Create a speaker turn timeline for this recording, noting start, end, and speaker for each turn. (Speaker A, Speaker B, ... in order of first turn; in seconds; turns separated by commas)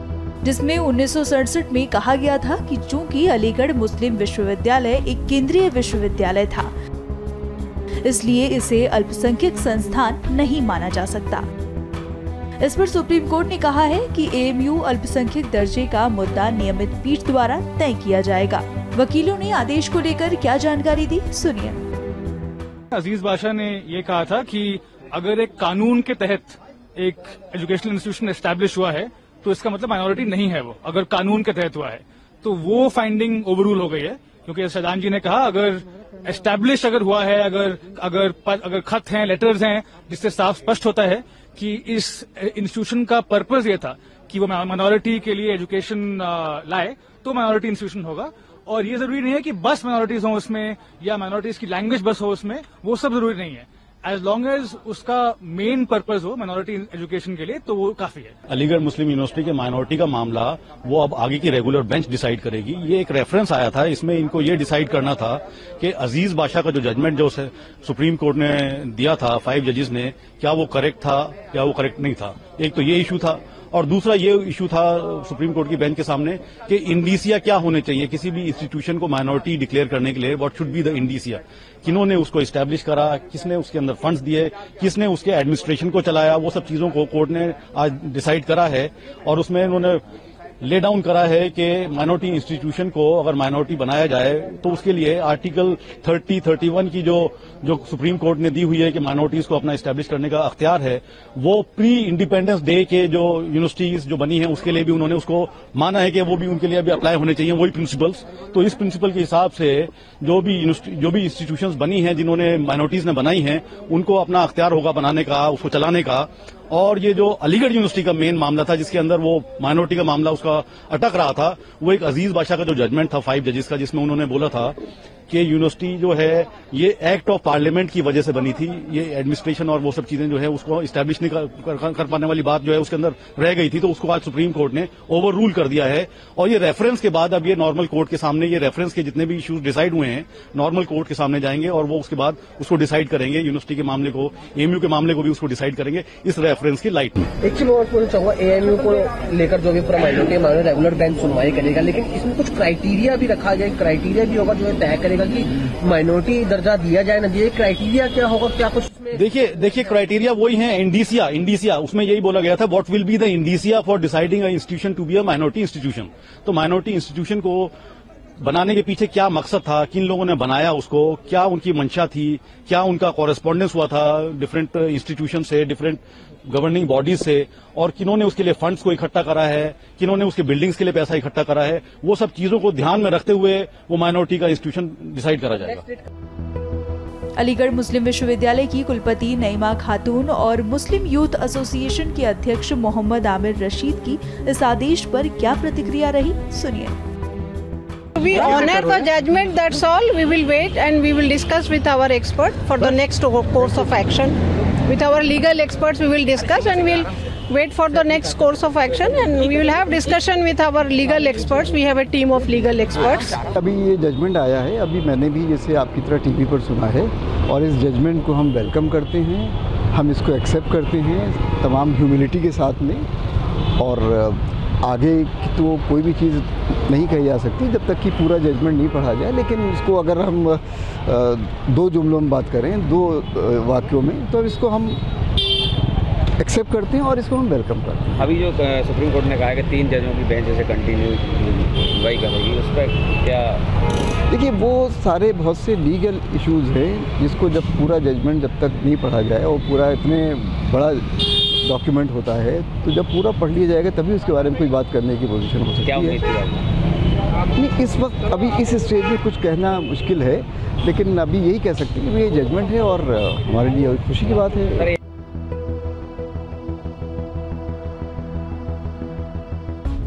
Speaker A: 0.4-6.7, Speaker A: 8.0-11.4, Speaker A: 12.6-21.8, Speaker B: 22.9-58.3, Speaker C: 58.5-90.0, Speaker C: 90.6-124.8, Speaker C: 125.3-147.3, Speaker D: 147.4-159.1, Speaker C: 159.1-167.7, Speaker C: 168.4-185.8, Speaker A: 187.4-196.9, Speaker E: 198.2-213.4, Speaker F: 213.5-223.0, Speaker F: 223.8-235.0, Speaker F: 236.4-238.2, Speaker G: 238.1-243.6, Speaker F: 244.3-256.2, Speaker G: 255.8-256.6, Speaker F: 257.5-264.9